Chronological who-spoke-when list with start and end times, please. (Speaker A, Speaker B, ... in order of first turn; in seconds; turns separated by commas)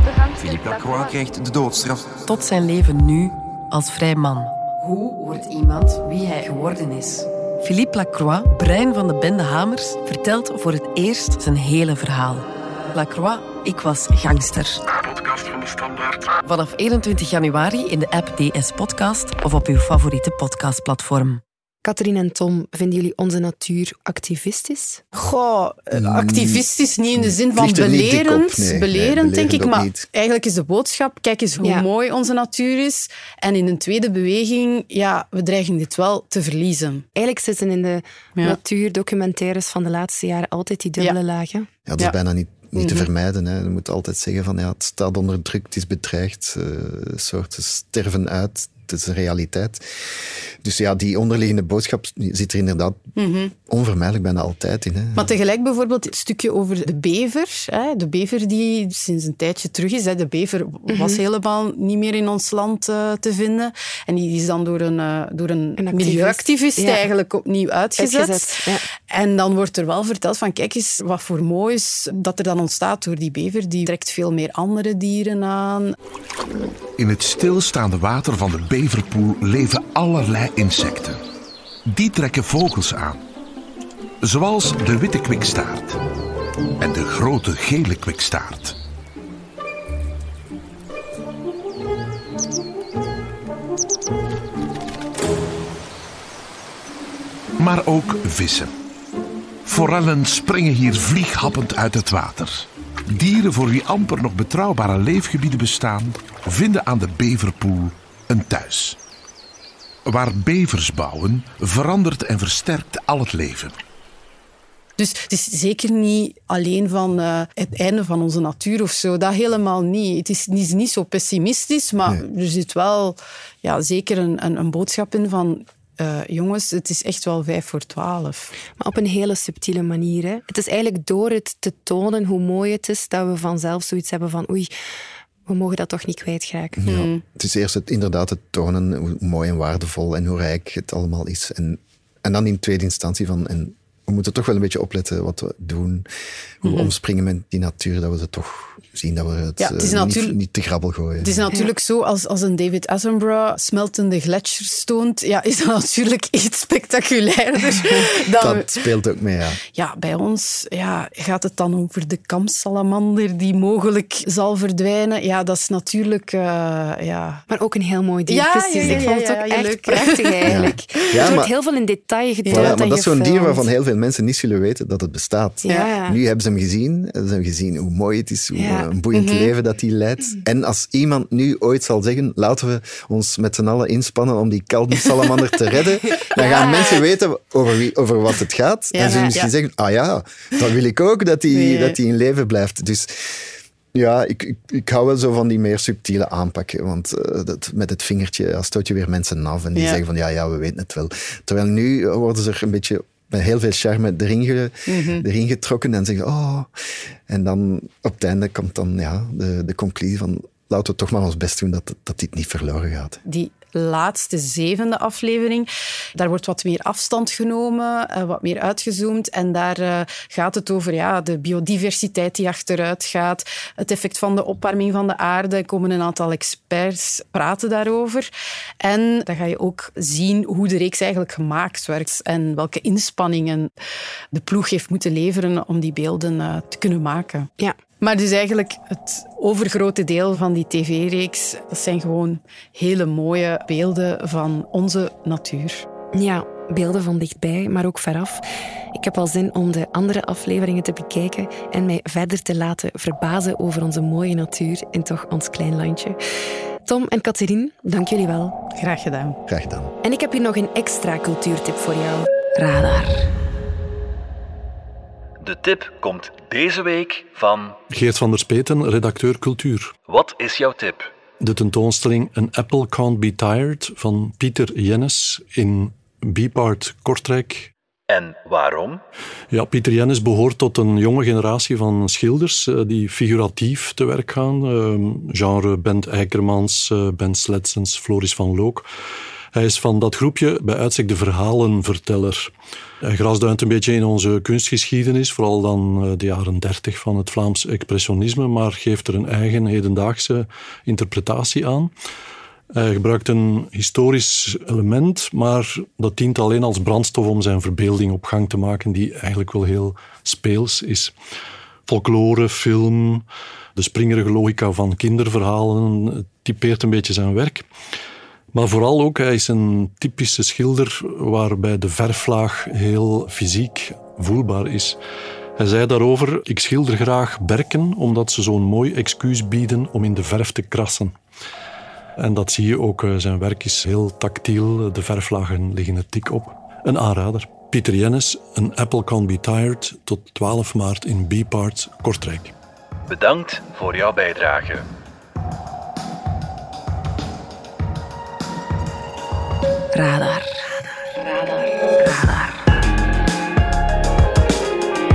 Speaker A: 0.3-2.2, Speaker B: 2.3-14.8, Speaker A: 14.9-16.3, Speaker B: 16.4-21.4, Speaker C: 21.8-25.0, Speaker D: 25.1-37.1, Speaker E: 25.9-30.1, Speaker C: 37.2-41.7, Speaker E: 41.9-49.8, Speaker D: 42.8-43.1, Speaker E: 50.6-53.0, Speaker D: 53.2-53.5, Speaker E: 53.7-55.3, Speaker D: 55.2-68.5, Speaker C: 60.9-61.2, Speaker C: 65.8-67.1, Speaker C: 68.0-68.9, Speaker D: 69.1-76.0, Speaker F: 77.0-81.2, Speaker F: 81.9-83.2, Speaker F: 84.2-86.0, Speaker F: 86.8-88.8, Speaker F: 97.6-98.7, Speaker F: 99.7-109.0, Speaker F: 110.1-113.8, Speaker D: 115.0-128.5, Speaker C: 128.8-134.7, Speaker C: 135.5-136.8, Speaker E: 136.8-146.1, Speaker D: 136.8-137.2, Speaker E: 146.6-151.5, Speaker D: 146.6-146.9, Speaker D: 149.6-150.3, Speaker D: 151.2-158.7, Speaker E: 158.4-159.6, Speaker D: 159.7-167.4, Speaker C: 167.5-173.7, Speaker D: 168.3-171.4, Speaker E: 170.5-171.5, Speaker D: 172.5-172.8, Speaker E: 172.5-206.7, Speaker C: 175.6-176.2, Speaker C: 178.6-178.9, Speaker D: 179.1-179.5, Speaker D: 186.4-187.0, Speaker C: 186.4-187.0, Speaker D: 188.9-189.5, Speaker C: 189.0-189.4, Speaker D: 191.5-192.0, Speaker D: 199.8-200.0, Speaker D: 204.9-205.2, Speaker E: 207.3-213.2, Speaker D: 213.2-228.3, Speaker D: 228.8-233.7, Speaker D: 234.3-245.8, Speaker C: 246.1-248.4, Speaker C: 248.9-256.2, Speaker C: 256.9-258.6, Speaker D: 258.8-259.4, Speaker E: 259.5-259.9, Speaker C: 260.0-263.0, Speaker G: 265.4-267.8, Speaker H: 267.9-269.9, Speaker G: 270.1-271.1, Speaker H: 271.4-277.7, Speaker G: 278.1-279.0, Speaker H: 279.5-288.9, Speaker H: 289.5-301.9, Speaker H: 302.7-311.1, Speaker H: 311.9-317.7, Speaker H: 318.5-325.0, Speaker H: 325.6-331.2, Speaker H: 332.2-342.5, Speaker G: 343.1-344.9, Speaker C: 349.9-350.5